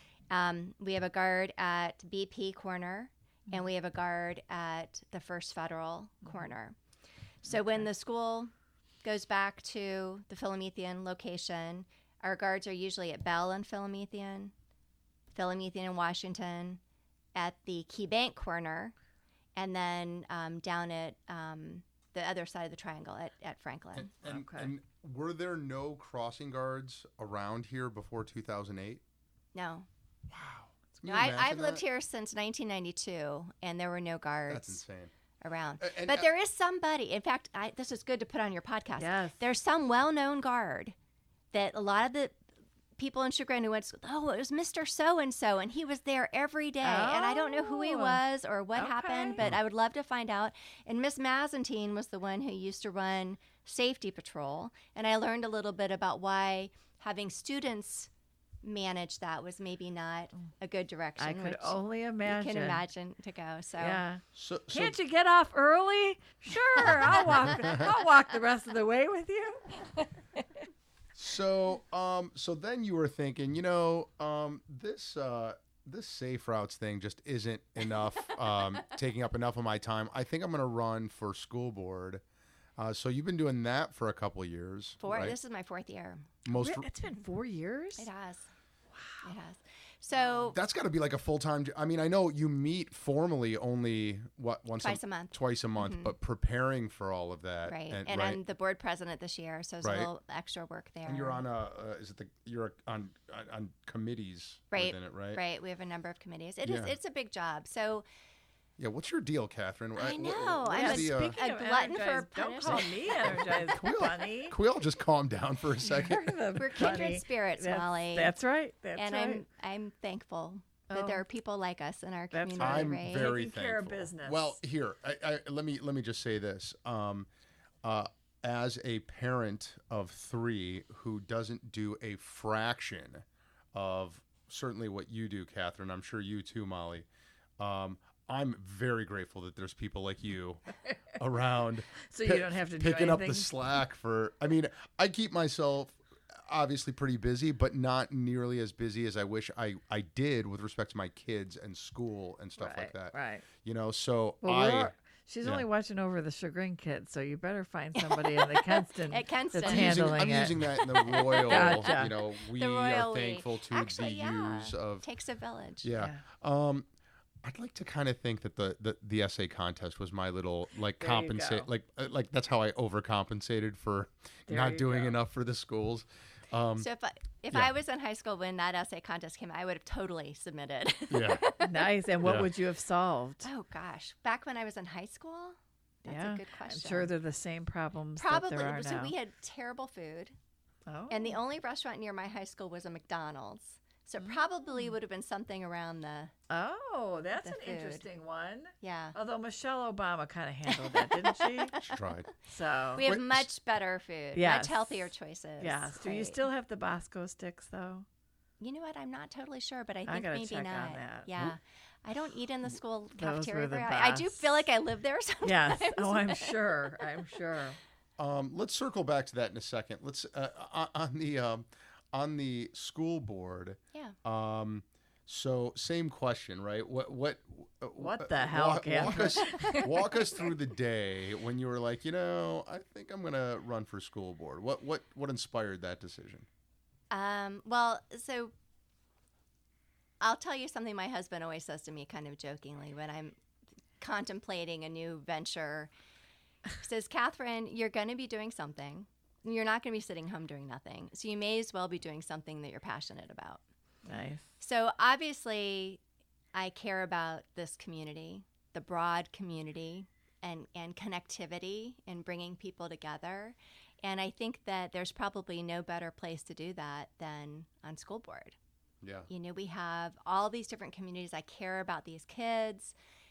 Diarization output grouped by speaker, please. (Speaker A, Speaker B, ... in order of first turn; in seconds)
Speaker A: 0.3-6.8, 7.4-8.5, 9.0-14.5, 15.3-16.8, 17.3-18.9, 19.6-24.1, 29.5-29.9, 31.0-34.8, 35.4-40.9, 41.5-42.4, 43.0-58.1, 58.6-64.0, 85.0-86.3, 88.0-88.5, 89.2-90.6, 94.8-96.1, 97.6-101.4, 104.7-108.0, 110.0-113.6, 116.5-118.3, 119.0-123.3, 158.0-160.2, 160.9-165.9, 176.8-181.8, 183.4-187.1, 188.2-190.3, 191.1-196.3, 197.4-198.1, 198.8-199.1, 200.7-201.5, 203.0-206.4, 208.6-216.6, 237.1-238.5, 240.2-243.3, 244.0-245.9, 246.8-253.6, 254.6-256.0, 256.5-268.6, 269.3-272.9
Speaker B: 23.9-29.0, 30.3-31.8, 34.5-35.1, 35.8-36.3, 64.3-65.0, 67.5-67.9, 71.1-82.2, 82.8-85.4, 86.4-86.9, 90.5-98.4, 99.8-100.1, 101.0-105.4, 106.6-106.9, 108.8-111.4, 113.6-116.2, 122.6-127.3, 127.8-137.1, 137.6-146.0, 146.5-155.7, 159.6-165.1, 165.8-166.9, 167.4-176.9, 181.1-181.4, 182.2-182.5, 201.8-202.3, 203.0-203.5, 218.2-236.4, 269.0-269.3
Speaker C: 24.2-24.7, 39.0-39.4, 46.8-48.2, 48.7-49.4, 61.2-62.8, 63.8-70.0, 86.5-88.1, 88.9-89.3, 110.7-114.5, 115.8-119.4, 120.9-121.2, 122.3-124.6, 142.1-143.5, 152.6-153.4, 154.4-160.6, 161.3-162.1, 171.0-171.7, 174.5-175.2, 181.6-183.5, 186.0-189.1, 190.9-191.4, 194.2-194.9, 196.5-201.8, 202.4-203.0, 204.3-208.1, 210.1-211.3, 213.2-214.5, 215.4-217.8, 228.0-229.9, 254.1-254.4